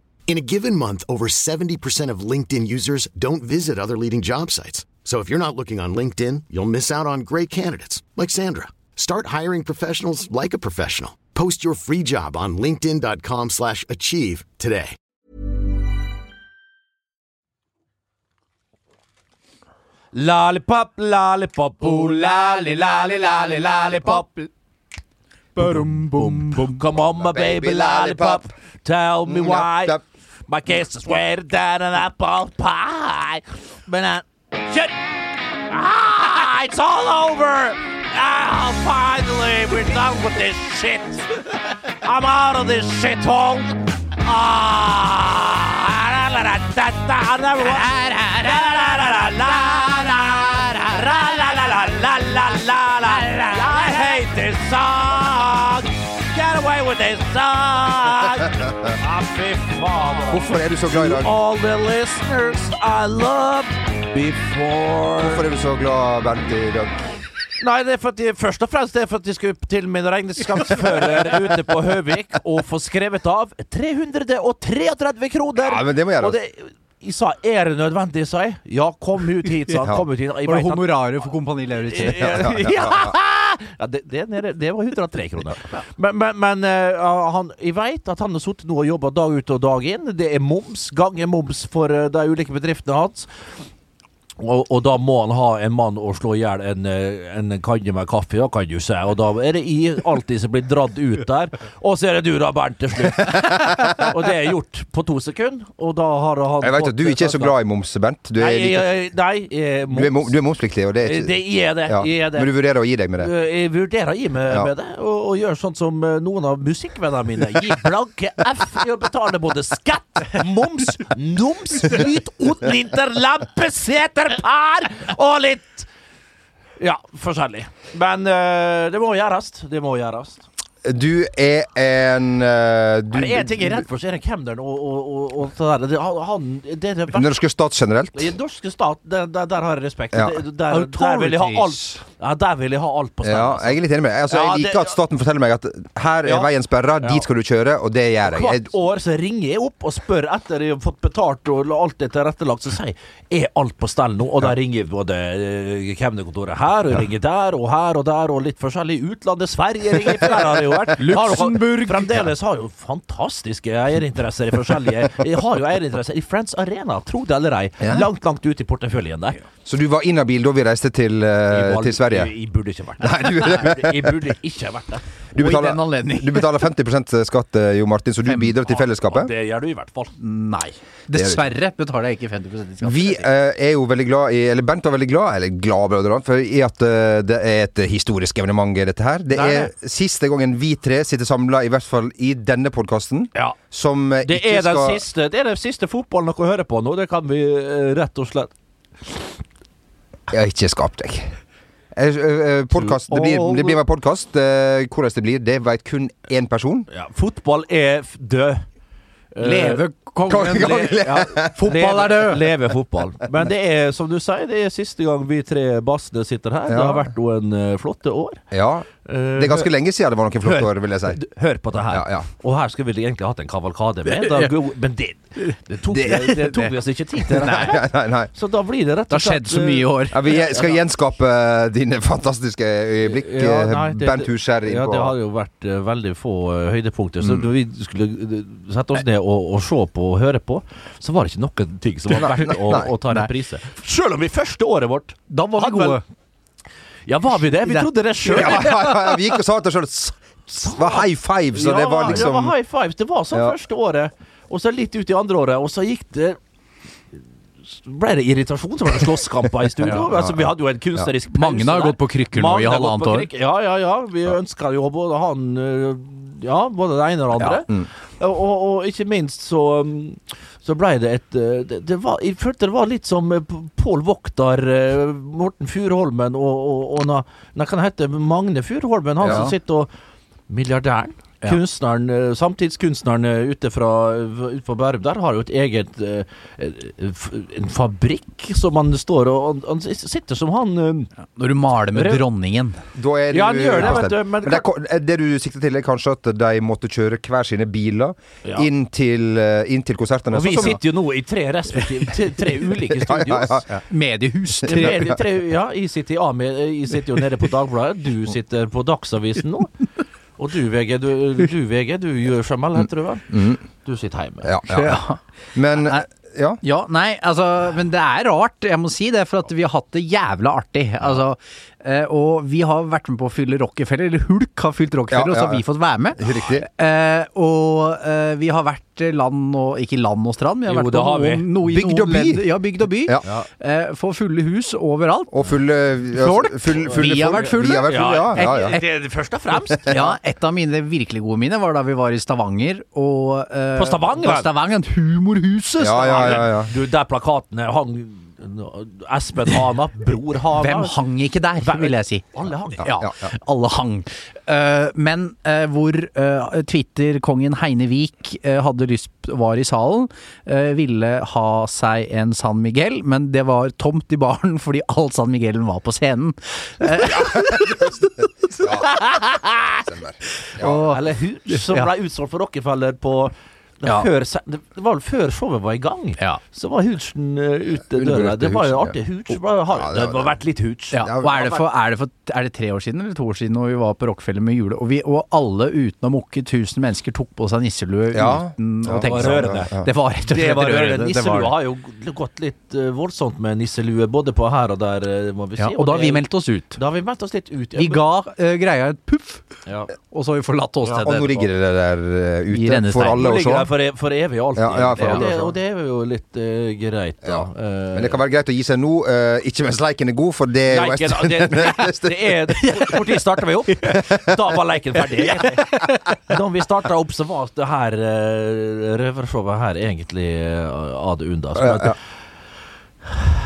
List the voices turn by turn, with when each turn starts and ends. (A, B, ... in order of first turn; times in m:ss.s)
0:00.3-0:15.0 A
0:20.1-0:24.5 B
0:25.6-0:28.5 C
0:25.6-0:35.0 B
0:25.6-0:26.8 D
0:29.2-0:30.0 C
0:35.7-1:05.4 B
0:53.2-0:53.7 D
1:00.3-1:01.3 C
1:05.2-1:07.1 C
1:07.6-1:21.0 B
1:15.6-1:16.4 C
1:20.5-1:22.6 D
1:21.9-1:33.3 B
1:22.2-1:23.1 C
1:34.4-1:47.6 B
1:43.2-1:44.0 C
1:46.6-1:48.9 C
1:48.4-1:50.3 B
1:49.9-1:53.3 C
1:51.0-1:52.5 B
1:53.2-2:05.9 B
2:06.8-2:10.4 B
2:10.8-2:13.8 C
2:13.1-2:17.4 B
2:17.1-2:18.3 C
2:18.1-2:25.0 B
2:20.7-2:22.0 D
2:23.2-2:28.7 C
2:26.2-2:27.2 B
2:28.2-2:49.4 B
2:41.0-2:42.2 D
2:47.8-2:48.1 C
2:49.6-2:52.3 C
2:51.5-2:55.0 B
2:53.0-2:54.3 C
2:55.3-2:59.3 C
2:55.4-2:56.6 D
2:58.6-3:00.2 B
3:00.2-3:03.2 D
3:01.1-3:01.5 C
3:02.8-3:15.0 C
3:14.2-3:18.5 B
3:20.3-3:21.3 C
3:21.9-3:26.9 C
3:22.8-3:23.8 B
3:26.9-3:28.6 B
3:29.3-3:38.4 B
3:29.4-3:32.5 D
3:30.3-3:31.5 C
3:36.7-3:37.1 C
3:38.5-3:41.2 C
3:39.0-3:39.7 B
3:40.4-3:50.8 B
3:41.9-3:42.3 C
3:44.2-3:44.5 D
3:46.1-3:46.5 D
3:47.4-3:48.3 C
3:47.4-3:47.8 D
3:49.1-3:50.2 D
3:50.1-3:55.2 C
3:53.0-4:06.0 B
4:02.2-4:02.9 C
4:05.3-4:06.0 D
4:07.1-4:09.1 B
4:07.6-4:07.9 D
4:08.2-4:12.6 C
4:08.4-4:08.8 D
4:10.5-4:16.4 B
4:17.7-4:39.9 B
4:19.9-4:21.1 C
4:21.3-4:23.3 D
4:27.4-4:27.9 C
4:39.2-4:39.5 C
4:40.5-4:51.1 B
4:51.4-4:52.8 D
4:51.9-4:52.2 B
4:53.0-5:00.8 C
4:53.3-4:54.7 B
5:00.3-5:03.7 B
5:03.0-5:03.7 C
5:03.8-5:05.1 D
5:04.6-5:05.1 C
5:04.7-5:09.7 B
5:10.4-5:14.5 B
5:13.3-5:13.6 C
5:14.4-5:15.0 C
5:14.7-5:15.2 D
5:15.6-5:16.6 C
5:16.6-5:35.3 D
5:25.1-5:25.6 C
5:26.2-5:26.7 C
5:30.7-5:31.5 B
5:31.6-5:33.3 C
5:35.3-5:38.8 C
5:36.2-5:38.8 D
5:37.0-5:40.0 B
5:39.9-5:46.5 D
5:39.9-5:40.2 C
5:43.8-5:44.5 B
5:45.8-5:46.7 C
5:46.2-5:51.0 B
5:50.6-5:52.2 D
5:51.6-5:52.9 B
5:52.8-6:08.0 D
5:53.0-5:53.3 C
6:07.0-6:08.0 C
6:08.6-6:08.9 C
6:09.6-6:10.8 C
6:10.5-6:11.9 D
6:10.7-6:21.0 B
6:18.0-6:19.0 C
6:19.7-6:20.3 C
6:20.9-6:31.5 D
6:21.0-6:21.5 C
6:28.1-6:29.9 C
6:29.0-6:29.7 B
6:30.2-6:36.2 B
6:35.6-6:36.8 D
6:36.8-6:38.0 B
6:37.8-6:39.5 D
6:40.1-6:41.5 D
6:41.0-6:43.7 C
6:42.5-6:43.3 D
6:43.2-6:48.2 B
6:44.6-6:45.5 C
6:45.0-6:45.3 D
6:47.2-6:52.3 C
6:50.7-7:02.0 B
6:55.6-6:55.9 D
7:01.6-7:02.0 C